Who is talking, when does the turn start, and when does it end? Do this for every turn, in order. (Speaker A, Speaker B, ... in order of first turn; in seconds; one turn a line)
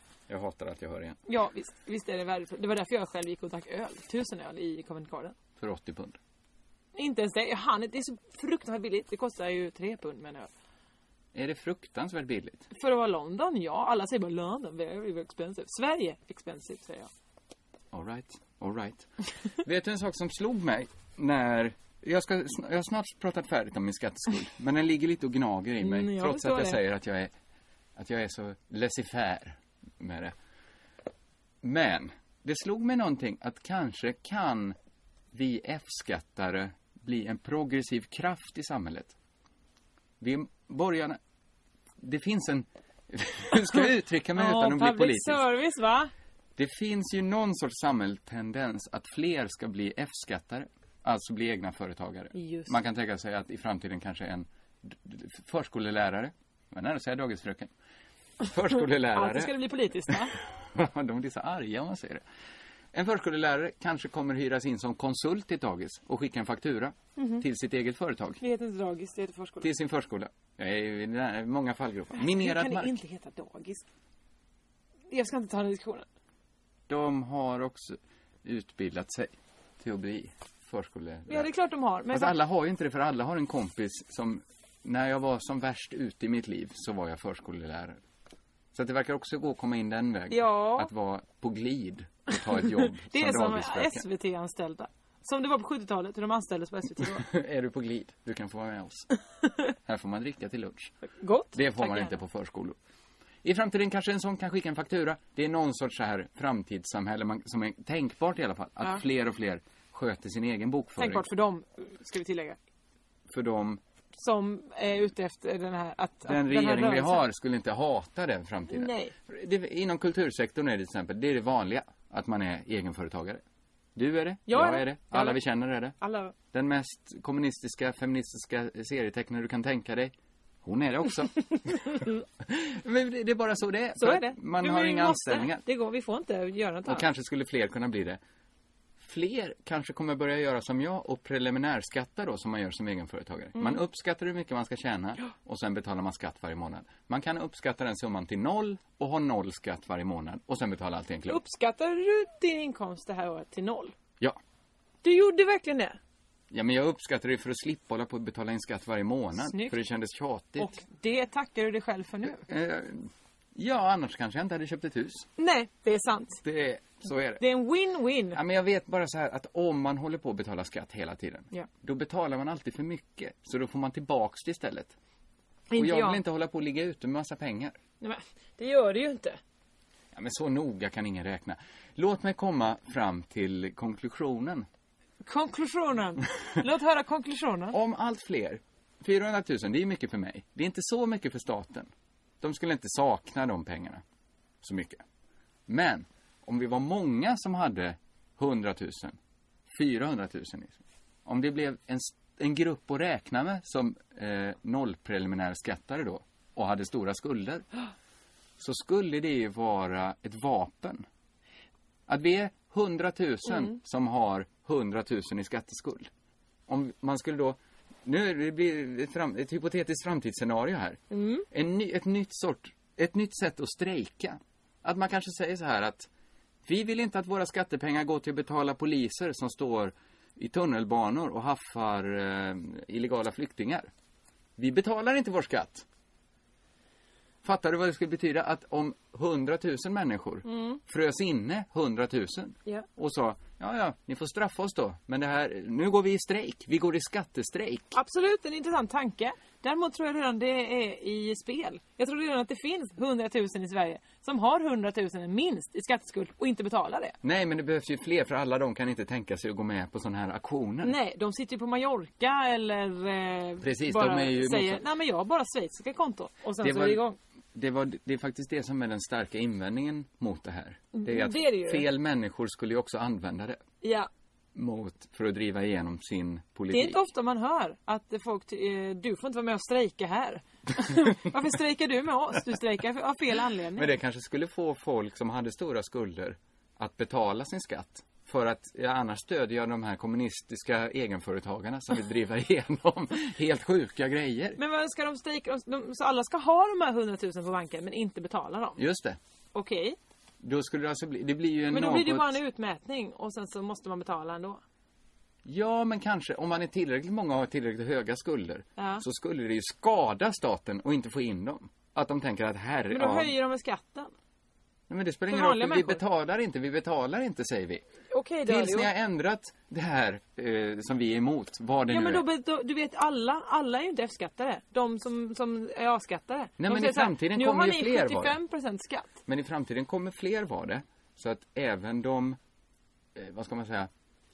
Speaker A: 0.3-1.2
Speaker B: 1.3-5.3
Speaker A: 5.6-6.2
Speaker B: 7.0-10.5
Speaker A: 11.3-12.7
Speaker B: 12.7-17.1
Speaker A: 17.9-27.3
Speaker B: 25.8-26.8
Speaker A: 27.9-30.3
Speaker A: 31.6-34.8
Speaker A: 35.3-39.1
Speaker A: 40.2-41.2
Speaker A: 42.0-45.5
Speaker B: 44.3-46.1
Speaker A: 46.6-57.7
Speaker B: 52.3-52.8
Speaker A: 58.4-59.5
Speaker B: 59.1-60.3
Speaker A: 60.7-62.2
Speaker A: 62.9-68.4
Speaker B: 67.2-67.4
Speaker B: 68.4-69.7
Speaker A: 69.6-72.9
Speaker B: 72.1-73.8
Speaker B: 75.1-76.0
Speaker A: 76.9-81.5
Speaker B: 81.3-82.4
Speaker A: 82.1-88.0
Speaker A: 88.7-94.0
Speaker B: 90.3-90.9
Speaker B: 93.0-97.2
Speaker A: 97.0-99.1
Speaker A: 99.8-100.9
Speaker B: 101.0-102.2
Speaker A: 101.5-102.8
Speaker A: 103.4-111.3
Speaker B: 111.0-112.6
Speaker A: 113.3-113.8
Speaker B: 114.1-117.2
Speaker A: 116.2-123.4
Speaker B: 118.7-119.1
Speaker A: 124.0-125.9
Speaker B: 124.5-125.4
Speaker B: 126.0-126.3
Speaker A: 126.5-135.6
Speaker B: 131.5-132.2
Speaker B: 134.0-137.0
Speaker A: 136.9-138.2
Speaker A: 139.0-151.4
Speaker B: 143.5-143.8
Speaker B: 151.3-153.9
Speaker B: 155.0-156.0
Speaker A: 156.5-160.8
Speaker B: 159.4-159.8
Speaker B: 160.6-162.4
Speaker A: 162.4-165.3
Speaker B: 165.4-166.4
Speaker A: 166.4-167.4
Speaker B: 167.4-168.4
Speaker A: 168.3-174.9
Speaker B: 175.7-176.2
Speaker A: 175.7-177.8
Speaker B: 178.0-179.4
Speaker A: 180.1-184.7
Speaker B: 185.2-187.8
Speaker A: 187.7-191.9
Speaker A: 192.4-194.0
Speaker A: 194.6-195.0
Speaker A: 195.7-199.2
Speaker A: 199.7-207.7
Speaker A: 208.6-211.0
Speaker A: 212.1-216.1
Speaker A: 216.7-226.1
Speaker B: 221.1-221.4
Speaker A: 226.6-233.9
Speaker A: 234.6-235.8
Speaker A: 237.4-247.9
Speaker B: 240.4-240.8
Speaker B: 247.9-257.1
Speaker A: 257.2-260.9
Speaker B: 260.8-267.2
Speaker A: 263.6-264.8
Speaker A: 266.6-267.0
Speaker A: 267.5-273.6
Speaker B: 270.9-271.9
Speaker B: 273.8-274.1
Speaker A: 274.5-277.0
Speaker B: 276.7-283.9
Speaker A: 283.7-294.6
Speaker B: 294.6-298.8
Speaker A: 298.8-299.2
Speaker B: 299.5-300.0
Speaker A: 300.4-302.4
Speaker B: 301.7-304.6
Speaker A: 305.4-313.3
Speaker B: 308.8-309.0
Speaker B: 312.9-314.1
Speaker A: 314.9-317.8
Speaker B: 315.3-316.0
Speaker B: 318.1-318.9
Speaker A: 318.4-322.2
Speaker B: 321.9-329.1
Speaker A: 326.6-328.4
Speaker A: 329.3-332.4
Speaker A: 333.1-333.9